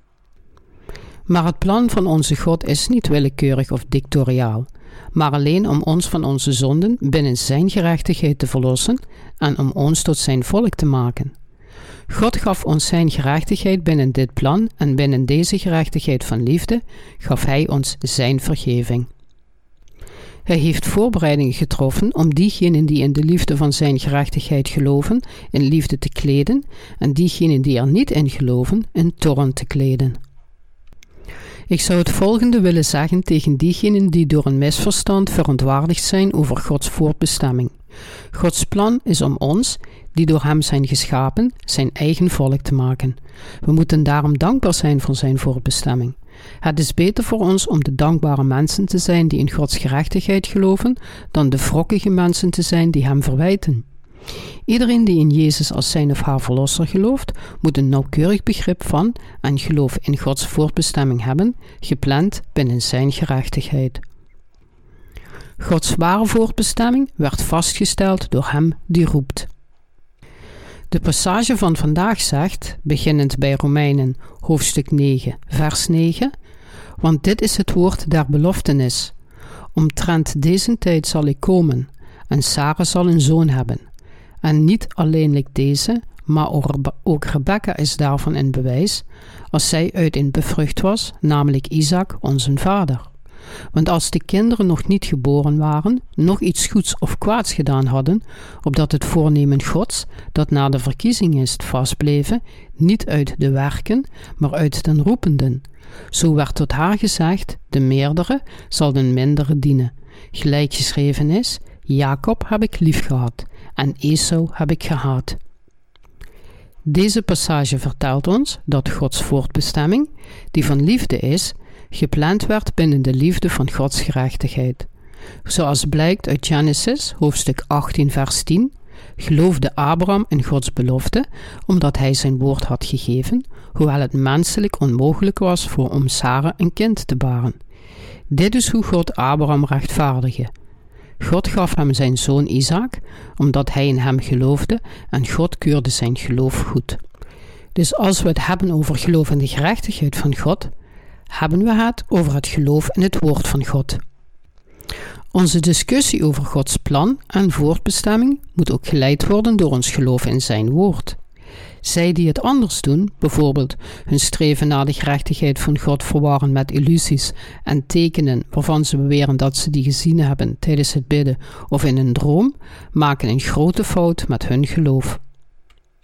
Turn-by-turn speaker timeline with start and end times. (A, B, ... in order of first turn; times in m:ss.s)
0:01.3-0:11.3 A
0:12.1-0:19.1 A
0:20.4-0:30.2 A
0:31.7-0:37.7 A
0:38.3-0:53.8 A
0:54.7-1:04.0 A
1:05.6-1:09.5 A
1:10.9-1:16.3 A
1:17.0-1:19.1 A
1:19.7-1:23.8 A
1:24.4-1:33.1 A
1:33.7-1:55.4 A
1:56.8-2:04.9 A
2:05.4-2:17.5 A
2:18.3-2:20.5 A
2:21.2-2:27.0 A
2:27.7-2:30.7 A
2:31.3-2:34.0 A
2:35.3-2:41.2 A
2:41.8-2:55.2 A